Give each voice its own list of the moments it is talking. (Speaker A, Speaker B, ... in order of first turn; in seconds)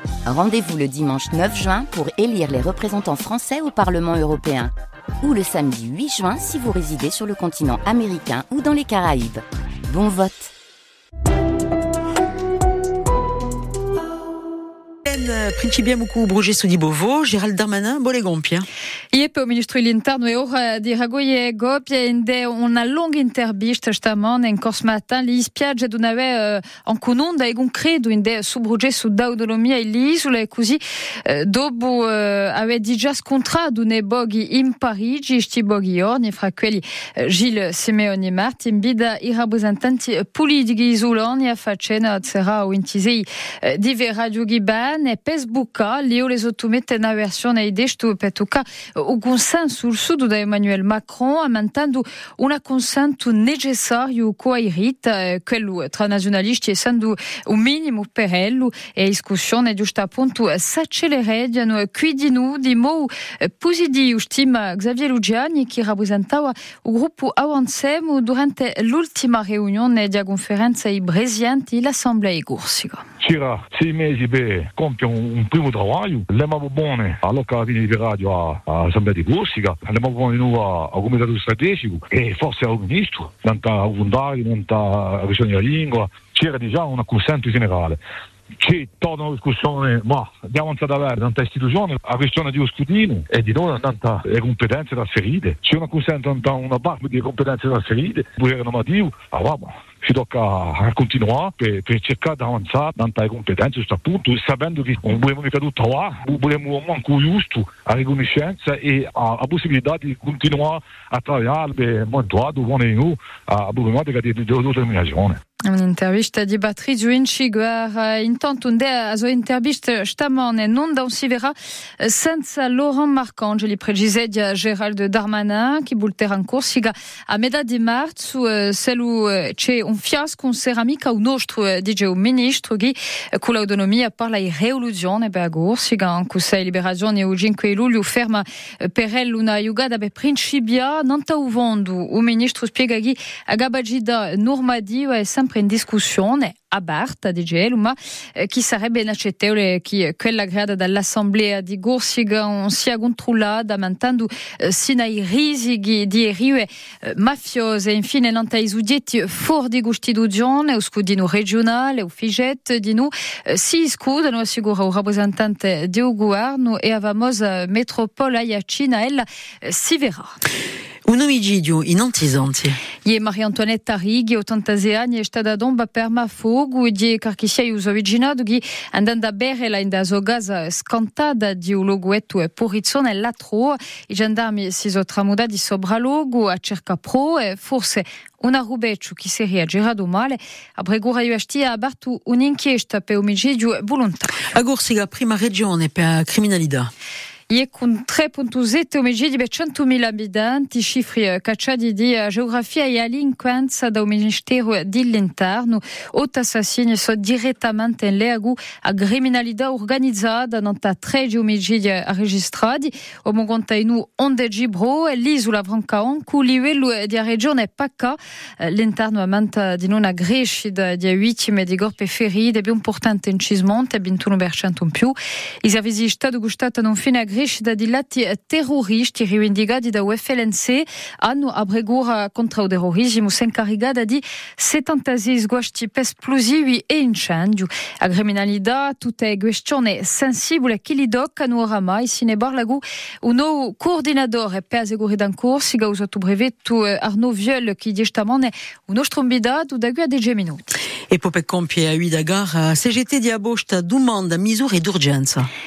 Speaker A: 0.2-10.5
Speaker B: 15.1-18.7, 171.1-172.8, 194.5-196.9, 251.1-255.5
Speaker C: 19.1-73.0, 115.6-170.3, 173.0-194.4, 197.5-250.7
Speaker D: 73.2-88.0, 88.6-115.4